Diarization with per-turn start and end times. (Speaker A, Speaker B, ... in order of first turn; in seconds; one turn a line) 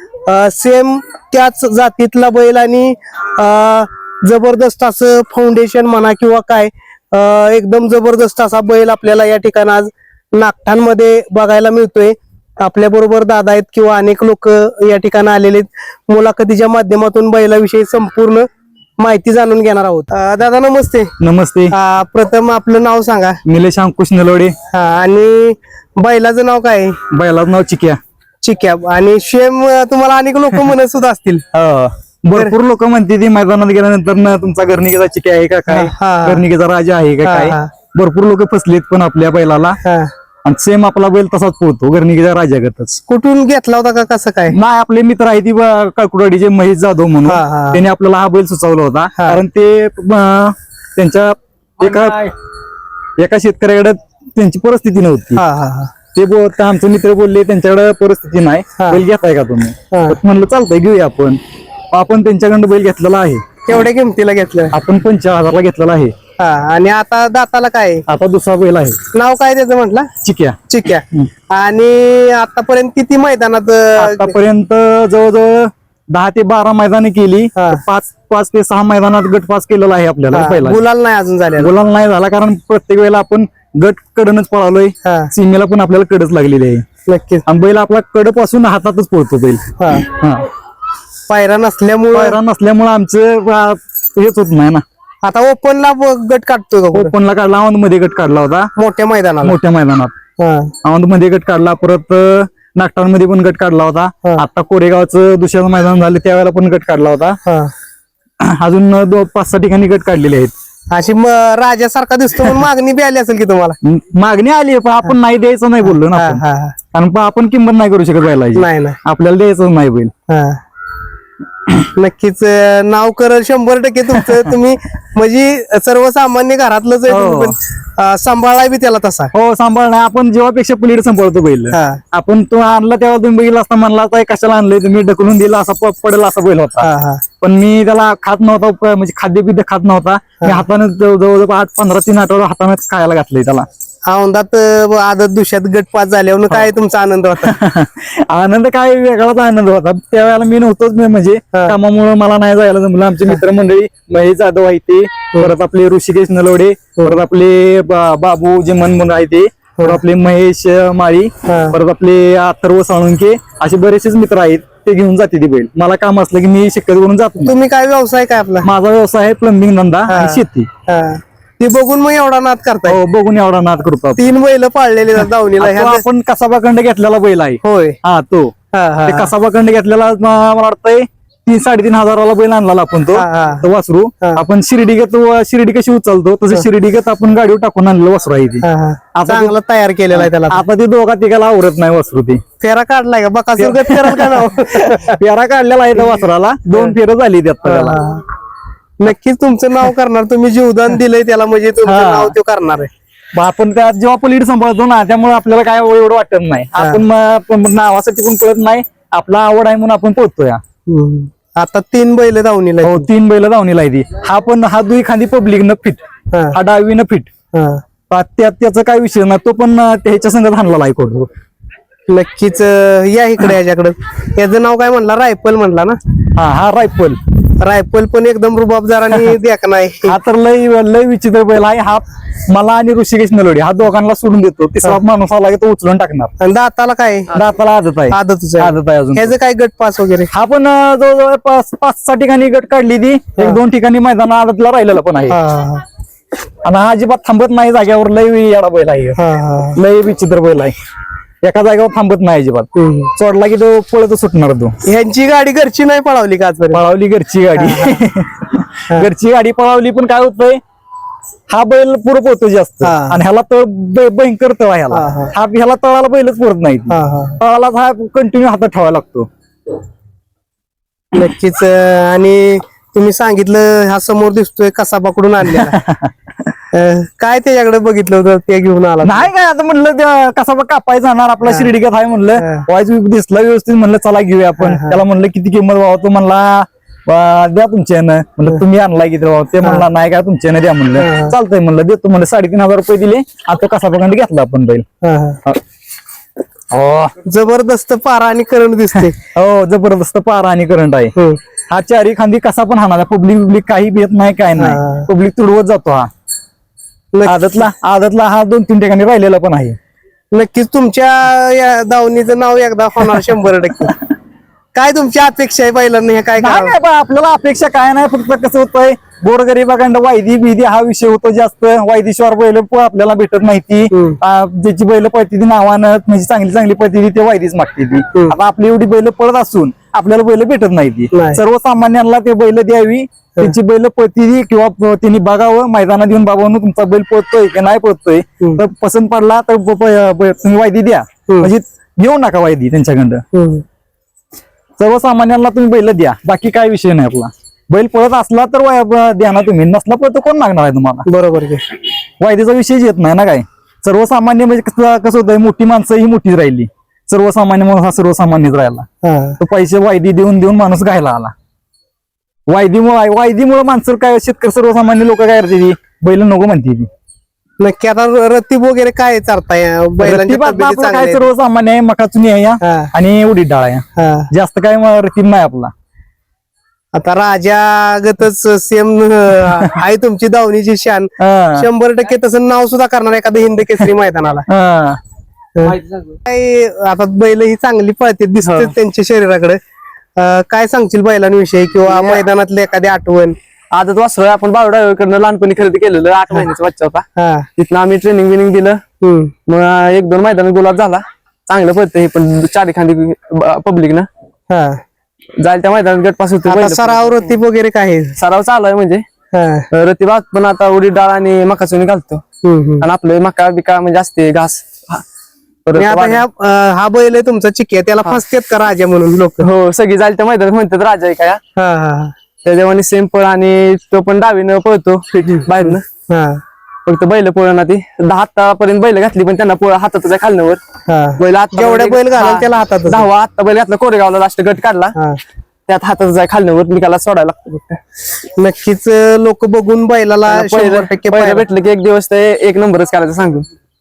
Speaker A: 0.2-18.4
Speaker A: 19.0-21.1
Speaker B: 21.2-21.7
Speaker A: 21.7-23.4
Speaker B: 23.4-24.5
Speaker A: 24.7-27.0
Speaker B: 27.1-28.0
Speaker A: 28.4-31.4
Speaker B: 31.5-39.8
Speaker A: 35.7-36.4
Speaker A: 37.2-37.7
Speaker A: 39.8-40.1
Speaker B: 40.4-43.0
Speaker A: 43.1-44.5
Speaker B: 44.5-52.3
Speaker A: 47.2-47.8
Speaker B: 53.2-55.4
Speaker A: 55.4-55.9
Speaker B: 56.1-61.4
Speaker A: 58.8-59.0
Speaker A: 59.9-60.2
Speaker B: 61.9-63.4
Speaker A: 63.6-64.7
Speaker B: 64.7-66.1
Speaker A: 66.4-68.0
Speaker B: 68.1-69.0
Speaker A: 69.1-70.1
Speaker B: 70.2-70.6
Speaker A: 70.7-74.3
Speaker B: 74.0-80.8
Speaker A: 77.6-77.8
Speaker A: 80.3-81.7
Speaker B: 81.6-86.8
Speaker A: 85.0-85.3
Speaker A: 87.1-87.4
Speaker B: 87.5-90.5
Speaker A: 89.8-90.0
Speaker A: 91.3-92.4
Speaker B: 92.1-94.8
Speaker A: 95.2-97.1
Speaker B: 96.9-98.7
Speaker A: 98.8-99.5
Speaker B: 99.4-100.1
Speaker A: 100.4-100.7
Speaker B: 100.8-107.4
Speaker B: 108.4-110.5
Speaker A: 110.9-113.8
Speaker B: 113.8-116.4
Speaker A: 115.8-116.8
Speaker B: 116.9-120.1
Speaker A: 118.5-119.0
Speaker A: 120.3-120.6
Speaker A: 121.9-129.3
Speaker B: 124.1-124.5
Speaker B: 127.1-127.5
Speaker B: 129.3-136.9
Speaker A: 131.7-132.0
Speaker A: 136.8-137.2
Speaker B: 137.4-143.7
Speaker A: 144.1-147.5
Speaker B: 147.4-167.5
Speaker A: 157.0-157.2
Speaker A: 161.5-161.8
Speaker A: 167.4-168.7
Speaker B: 168.6-170.7
Speaker A: 170.1-173.0
Speaker B: 172.9-174.2
Speaker A: 174.2-176.0
Speaker B: 175.6-178.5
Speaker A: 177.6-178.0
Speaker A: 178.7-179.3
Speaker B: 179.1-188.6
Speaker A: 183.1-183.7
Speaker A: 188.6-190.6
Speaker B: 189.1-189.5
Speaker B: 190.1-192.4
Speaker A: 192.6-195.2
Speaker B: 193.6-198.0
Speaker A: 197.6-198.2
Speaker A: 199.0-202.9
Speaker B: 201.8-202.3
Speaker B: 203.3-210.6
Speaker A: 206.8-207.0
Speaker A: 210.9-213.1
Speaker B: 212.8-216.0
Speaker A: 216.3-216.6
Speaker B: 216.5-217.3
Speaker A: 217.5-217.8
Speaker B: 218.1-221.3
Speaker A: 222.1-226.0
Speaker B: 226.3-227.2
Speaker A: 227.6-230.2
Speaker B: 230.0-236.3
Speaker A: 236.4-237.3
Speaker B: 237.3-239.3
Speaker A: 238.1-240.3
Speaker B: 240.3-245.4
Speaker A: 243.3-243.6
Speaker A: 245.3-245.8
Speaker B: 246.6-249.2
Speaker A: 249.2-249.8
Speaker B: 249.8-250.7
Speaker B: 251.4-254.7
Speaker A: 252.7-253.1
Speaker A: 254.8-256.8
Speaker B: 256.7-260.6
Speaker A: 257.6-258.0
Speaker B: 261.5-269.3
Speaker A: 262.8-263.2
Speaker A: 264.9-265.3
Speaker A: 266.9-267.4
Speaker A: 271.1-275.8
Speaker B: 275.4-276.1
Speaker A: 276.7-279.3
Speaker B: 279.0-294.8
Speaker A: 281.4-281.7
Speaker A: 284.6-285.0
Speaker A: 291.0-291.3
Speaker A: 295.0-295.4
Speaker B: 296.7-297.1
Speaker A: 297.2-299.2
Speaker B: 299.2-301.1
Speaker B: 301.7-306.1
Speaker A: 304.6-305.1
Speaker A: 307.1-307.6
Speaker B: 307.2-309.8
Speaker A: 310.3-313.9
Speaker A: 314.7-316.7
Speaker B: 316.4-343.2
Speaker A: 323.9-324.2
Speaker A: 331.1-331.4
Speaker A: 343.3-343.6
Speaker B: 344.8-351.1
Speaker A: 351.1-351.6
Speaker B: 352.2-358.9
Speaker A: 359.0-359.4
Speaker B: 359.4-361.3
Speaker B: 362.5-366.9
Speaker A: 367.6-371.3
Speaker B: 370.0-375.7
Speaker A: 372.6-372.9
Speaker A: 374.0-374.3
Speaker A: 376.9-384.4
Speaker B: 381.2-381.7
Speaker B: 384.5-385.0
Speaker A: 385.6-389.6
Speaker C: 385.7-386.1
Speaker C: 388.4-388.7
Speaker A: 390.1-393.4
Speaker C: 391.9-392.2
Speaker C: 393.7-397.0
Speaker A: 397.2-397.5
Speaker C: 397.6-398.8
Speaker A: 399.0-399.3
Speaker C: 399.5-404.1
Speaker A: 404.5-404.8
Speaker C: 405.4-407.3
Speaker A: 406.4-408.1
Speaker C: 408.1-409.1
Speaker A: 409.3-409.7
Speaker C: 409.7-412.2
Speaker A: 412.4-412.9
Speaker C: 412.8-415.0
Speaker C: 415.6-416.2
Speaker A: 415.8-419.5
Speaker C: 419.4-421.4
Speaker A: 421.6-422.1
Speaker C: 422.4-425.8
Speaker A: 426.1-426.4
Speaker C: 426.9-430.6
Speaker A: 430.9-433.1
Speaker C: 431.2-434.9
Speaker C: 435.7-437.8
Speaker A: 438.4-441.4
Speaker C: 440.3-443.5